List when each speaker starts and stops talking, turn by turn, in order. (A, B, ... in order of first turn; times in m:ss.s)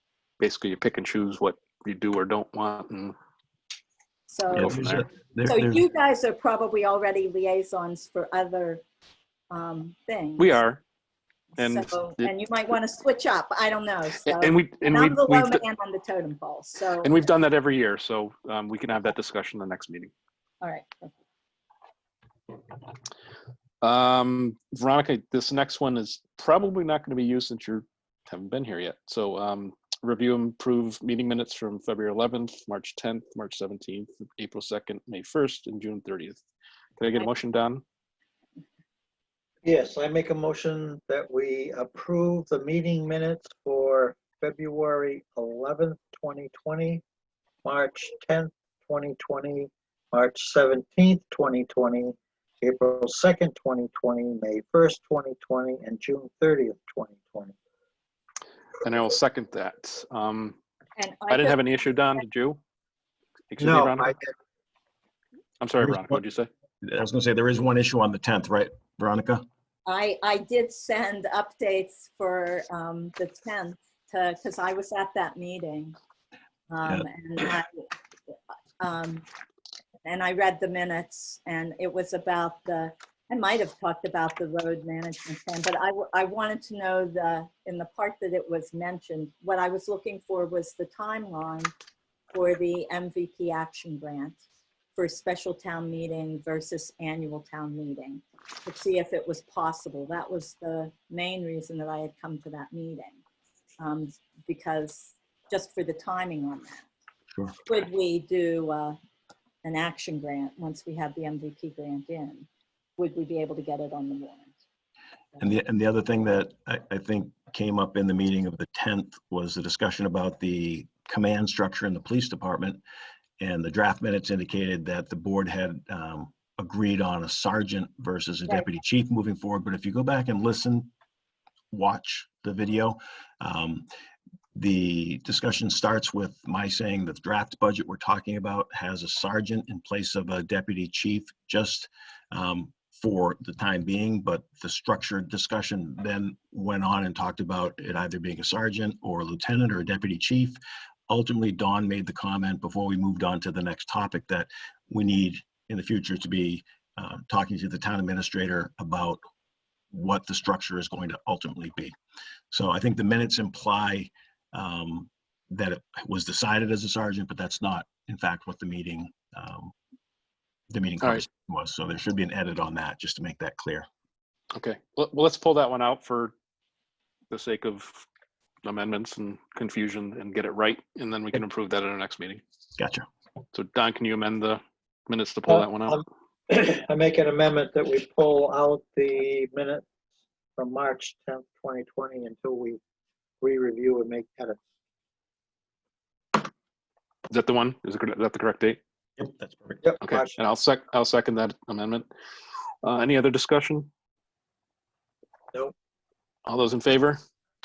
0:00.4-0:03.1 A
0:04.3-0:04.8 B
0:04.5-0:05.0 A
0:04.5-0:05.8 C
0:05.4-0:08.8 B
0:09.5-0:10.6 B
0:10.4-0:10.8 A
0:11.6-0:17.2 B
0:11.6-0:12.3 A
0:14.2-0:15.6 A
0:17.0-0:20.1 A
0:20.6-0:21.1 B
0:23.8-0:36.4 A
0:37.0-0:37.8 A
0:39.6-0:47.0 D
0:47.6-0:57.5 D
0:58.8-1:00.6 A
1:01.0-1:01.6 B
1:01.3-1:02.6 A
1:03.5-1:04.1 A
1:03.6-1:04.3 D
1:05.6-1:06.5 A
1:06.8-1:09.4 C
1:09.8-1:16.0 B
1:16.7-1:17.8 B
1:18.8-1:19.2 B
1:20.0-1:31.7 B
1:32.3-1:34.4 B
1:34.9-1:43.2 B
1:43.8-1:46.9 B
1:47.3-1:47.6 C
1:47.6-1:49.0 B
1:49.6-1:52.5 B
1:53.0-1:54.5 B
1:55.4-2:02.8 C
2:03.4-2:10.9 C
2:11.7-2:13.9 C
2:14.5-2:39.2 C
2:39.9-2:41.9 C
2:42.5-2:49.7 C
2:50.7-2:53.9 C
2:54.5-2:56.3 A
2:57.3-2:58.0 A
2:58.6-3:02.4 A
3:02.8-3:03.0 C
3:03.5-3:06.0 A
3:05.5-3:09.8 D
3:10.6-3:12.8 D
3:13.4-3:14.6 D
3:17.3-3:18.8 A
3:19.2-3:19.8 C
3:19.8-3:20.4 D
3:20.0-3:22.0 A
3:22.8-3:23.9 A
3:26.4-3:27.2 A